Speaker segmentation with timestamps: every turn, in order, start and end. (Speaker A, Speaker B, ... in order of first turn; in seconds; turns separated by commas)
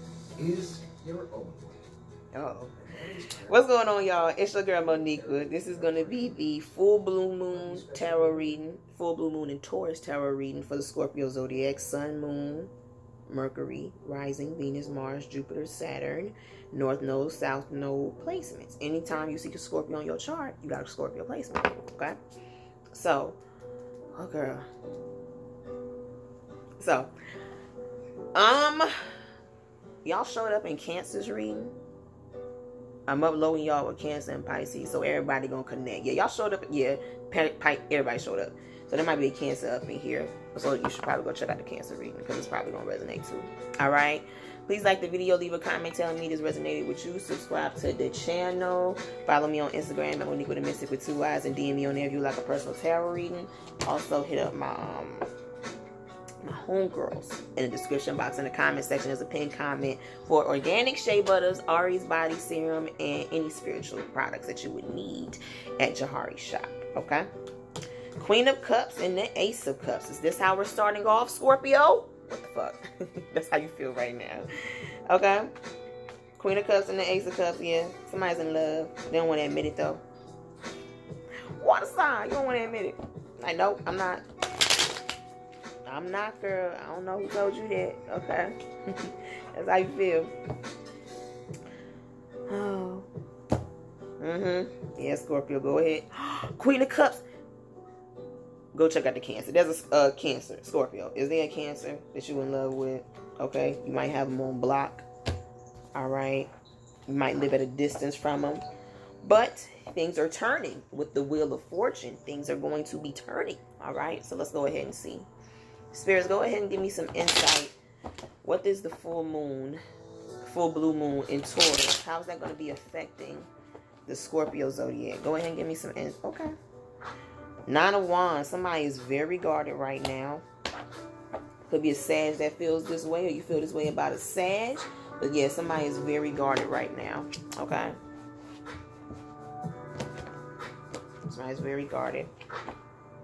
Speaker A: 0.4-1.8, Speaker B: 2.3-2.8, Speaker A: 2.7-3.7, Speaker B: 3.5-12.7, Speaker A: 4.3-6.4, Speaker A: 7.5-8.6, Speaker B: 13.3-22.2, Speaker B: 22.9-23.4, Speaker B: 24.2-24.7, Speaker B: 26.8-27.1, Speaker B: 28.4-28.9, Speaker B: 30.0-31.8, Speaker B: 33.1-55.3, Speaker B: 56.4-67.3, Speaker B: 68.2-74.5, Speaker B: 75.1-75.5, Speaker B: 76.4-80.0, Speaker B: 81.6-84.2, Speaker B: 85.9-90.3, Speaker B: 92.5-93.1, Speaker B: 94.2-97.2, Speaker B: 98.7-105.1, Speaker B: 106.0-106.5, Speaker B: 107.1-108.6, Speaker B: 109.2-115.3, Speaker B: 115.9-117.8, Speaker B: 118.4-119.8, Speaker B: 120.4-123.5, Speaker B: 124.1-126.5, Speaker B: 127.7-130.4, Speaker B: 131.7-138.0, Speaker B: 141.3-142.3